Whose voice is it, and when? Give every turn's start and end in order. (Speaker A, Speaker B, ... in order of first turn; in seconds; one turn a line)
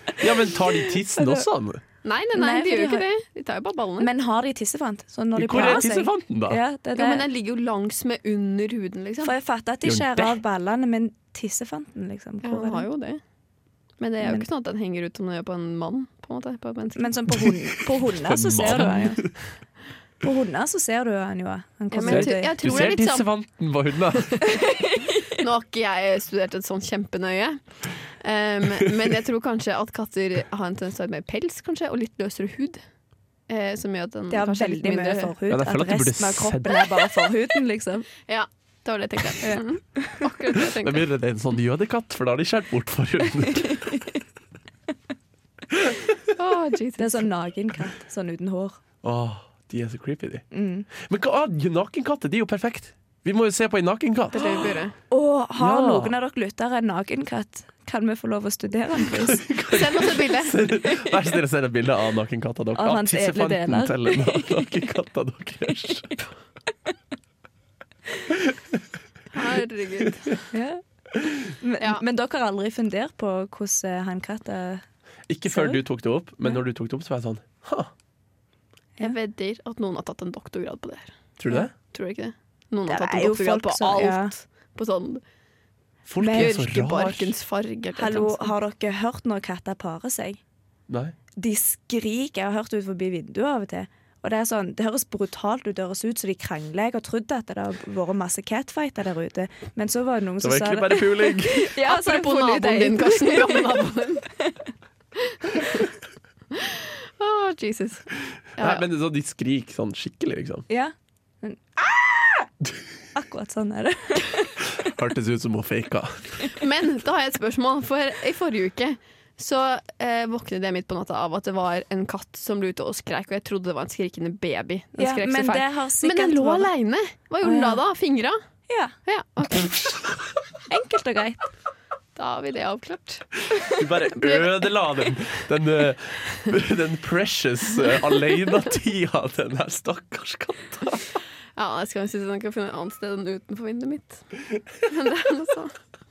Speaker A: 0.2-1.8
Speaker B: 1.2-1.4
Speaker C: 2.0-4.1
Speaker B: 2.3-3.0
Speaker B: 4.0-7.3
Speaker A: 5.3-6.6
Speaker C: 6.9-9.3
Speaker B: 9.2-12.9
Speaker A: 9.8-10.4
Speaker C: 12.4-13.2
Speaker C: 14.0-17.1
Speaker B: 14.2-14.4
Speaker B: 16.9-19.2
Speaker A: 18.0-19.4
Speaker B: 20.2-22.5
Speaker C: 21.9-23.3
Speaker A: 22.1-24.5
Speaker C: 24.4-27.6
Speaker C: 28.2-32.8
Speaker C: 33.5-35.3
Speaker B: 34.3-38.1
Speaker A: 35.5-36.9
Speaker C: 38.2-41.0
Speaker B: 39.4-40.2
Speaker A: 40.6-43.9
Speaker A: 45.7-46.0
Speaker C: 46.4-47.3
Speaker B: 47.0-48.8
Speaker A: 49.0-50.4
Speaker B: 50.5-50.9
Speaker A: 51.0-54.7
Speaker C: 54.3-54.9
Speaker B: 55.1-59.5
Speaker A: 55.6-56.1
Speaker A: 59.0-66.2
Speaker C: 59.7-60.6
Speaker B: 60.8-61.2
Speaker B: 62.7-64.7
Speaker A: 68.3-68.8
Speaker C: 69.3-70.4
Speaker B: 70.5-70.8
Speaker A: 71.1-71.4
Speaker B: 71.6-74.8
Speaker A: 75.3-77.9
Speaker B: 75.5-75.8
Speaker C: 79.0-81.1
Speaker A: 81.4-81.7
Speaker C: 81.9-85.2
Speaker B: 82.9-84.3
Speaker A: 86.0-87.2
Speaker B: 86.2-87.0
Speaker C: 86.3-88.5
Speaker B: 88.0-90.4
Speaker A: 90.9-91.2
Speaker B: 91.4-103.9
Speaker A: 100.4-101.7
Speaker C: 101.8-104.2
Speaker C: 105.2-105.8
Speaker C: 106.5-108.0
Speaker C: 108.6-108.8
Speaker A: 108.6-110.7
Speaker B: 110.7-112.5
Speaker B: 113.1-114.6
Speaker A: 114.7-116.5
Speaker C: 116.5-128.4
Speaker B: 125.0-126.7
Speaker B: 127.4-127.8
Speaker B: 128.7-128.9
Speaker C: 129.1-129.7
Speaker B: 130.7-131.4
Speaker C: 132.1-134.6
Speaker A: 133.7-141.1
Speaker C: 141.6-144.3
Speaker C: 144.8-145.8